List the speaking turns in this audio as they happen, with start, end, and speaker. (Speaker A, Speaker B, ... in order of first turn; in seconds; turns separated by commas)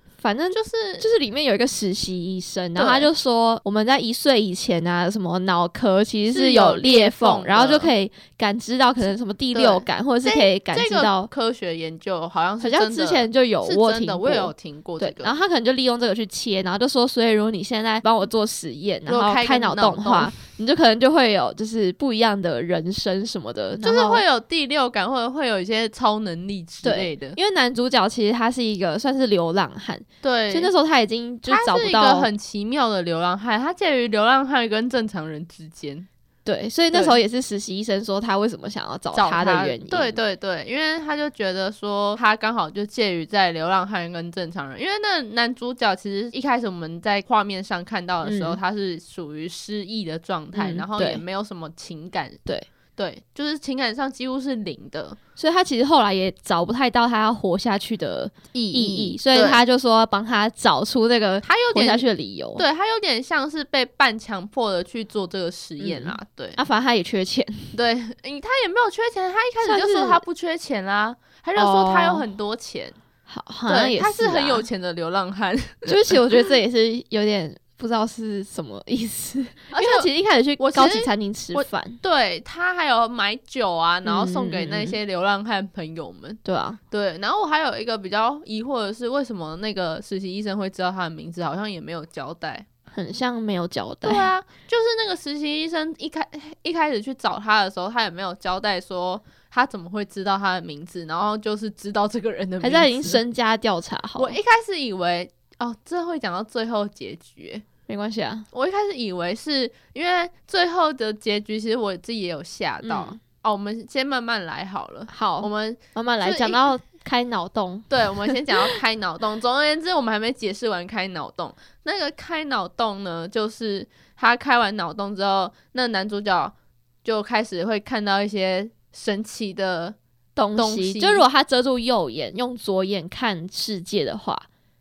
Speaker A: 0.2-11.3, Speaker B: 0.5-1.1, Speaker B: 2.8-3.1, Speaker B: 6.3-7.9, Speaker B: 9.5-15.4, Speaker A: 12.6-24.2, Speaker B: 19.1-20.3, Speaker B: 23.8-27.4, Speaker A: 26.8-32.3, Speaker B: 30.2-30.7, Speaker B: 31.5-36.1, Speaker A: 36.4-40.2, Speaker B: 36.9-37.2, Speaker B: 39.1-52.4, Speaker A: 48.2-48.6, Speaker A: 50.5-51.2, Speaker B: 53.0-55.2, Speaker A: 55.4-62.6, Speaker B: 58.5-59.6, Speaker B: 61.4-62.0, Speaker B: 62.6-66.6, Speaker A: 65.8-67.8, Speaker B: 67.7-73.0, Speaker A: 69.6-70.2, Speaker A: 71.5-72.2, Speaker A: 73.3-74.7, Speaker B: 73.7-76.4, Speaker A: 75.8-82.0, Speaker B: 79.7-80.1, Speaker B: 80.6-86.4, Speaker A: 84.0-85.0, Speaker A: 86.4-86.8, Speaker B: 86.9-92.7, Speaker A: 92.9-94.3, Speaker B: 94.0-103.2, Speaker A: 102.6-104.4, Speaker B: 104.2-107.6, Speaker A: 107.9-108.5, Speaker B: 108.5-116.6, Speaker A: 112.8-113.2, Speaker A: 115.1-118.7, Speaker B: 117.9-130.0, Speaker A: 130.3-134.4, Speaker B: 130.6-131.2